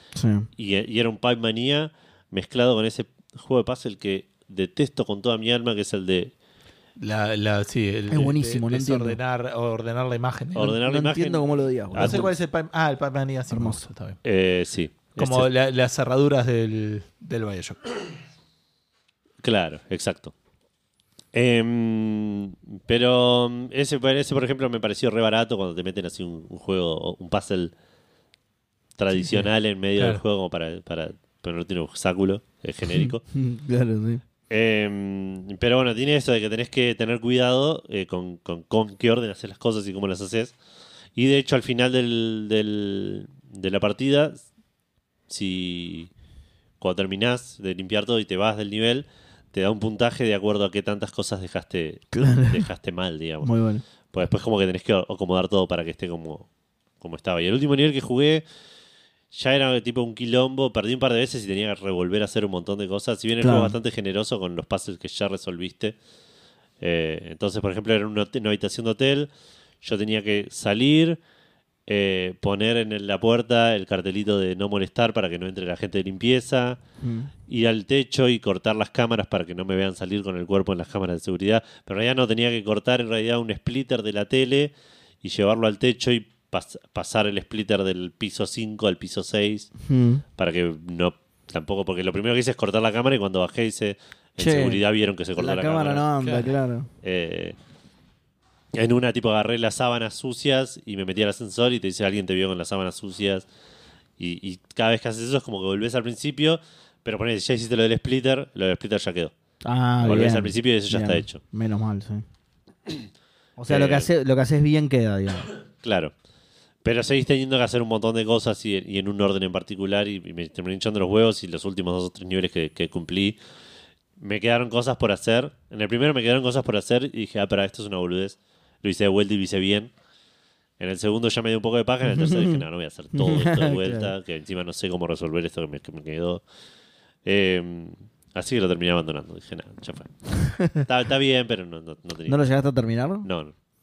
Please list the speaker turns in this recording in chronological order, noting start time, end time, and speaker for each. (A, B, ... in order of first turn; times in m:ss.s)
0:00.2-0:00.5 A
0:00.6-0:06.3 B
0:07.0-0:10.8 C
0:08.1-0:09.2 A
0:10.5-0:12.3 B
0:10.6-0:12.3 A
0:11.9-0:14.2 C
0:13.5-0:13.8 A
0:14.2-0:15.5 B
0:15.2-0:17.8 C
0:19.4-0:20.3 B
0:21.3-0:27.7 B
0:29.0-0:33.2 B
0:29.3-0:30.2 C
0:32.9-0:34.2 A
0:34.5-0:40.5 B
0:41.2-0:44.4 B
0:45.3-0:46.1 B
0:46.8-0:53.5 B
0:52.1-0:52.7 A
0:53.4-0:53.8 A
0:54.1-0:56.5 B
0:57.0-0:58.4 B
0:59.3-1:06.0 B
1:03.4-1:03.8 A
1:06.8-1:09.3 B
1:09.8-1:11.2 B
1:11.9-1:16.8 B
1:17.0-1:17.3 A
1:17.5-1:29.7 B
1:29.8-1:30.2 A
1:30.4-1:36.1 B
1:34.4-1:34.8 A
1:35.4-1:36.9 A
1:36.2-1:36.5 C
1:37.0-1:37.6 B
1:38.7-1:43.4 B
1:44.2-1:49.3 B
1:49.6-1:52.2 A
1:50.0-1:51.4 B
1:53.6-1:55.5 A
1:53.7-1:54.1 B
1:55.8-1:56.1 B
1:56.8-2:03.4 B
2:04.2-2:09.9 B
2:10.8-2:16.4 B
2:12.0-2:12.6 A
2:13.1-2:14.1 A
2:17.2-2:20.1 B
2:20.5-2:20.8 A
2:20.6-2:22.4 B
2:22.3-2:23.3 A
2:23.2-2:23.5 B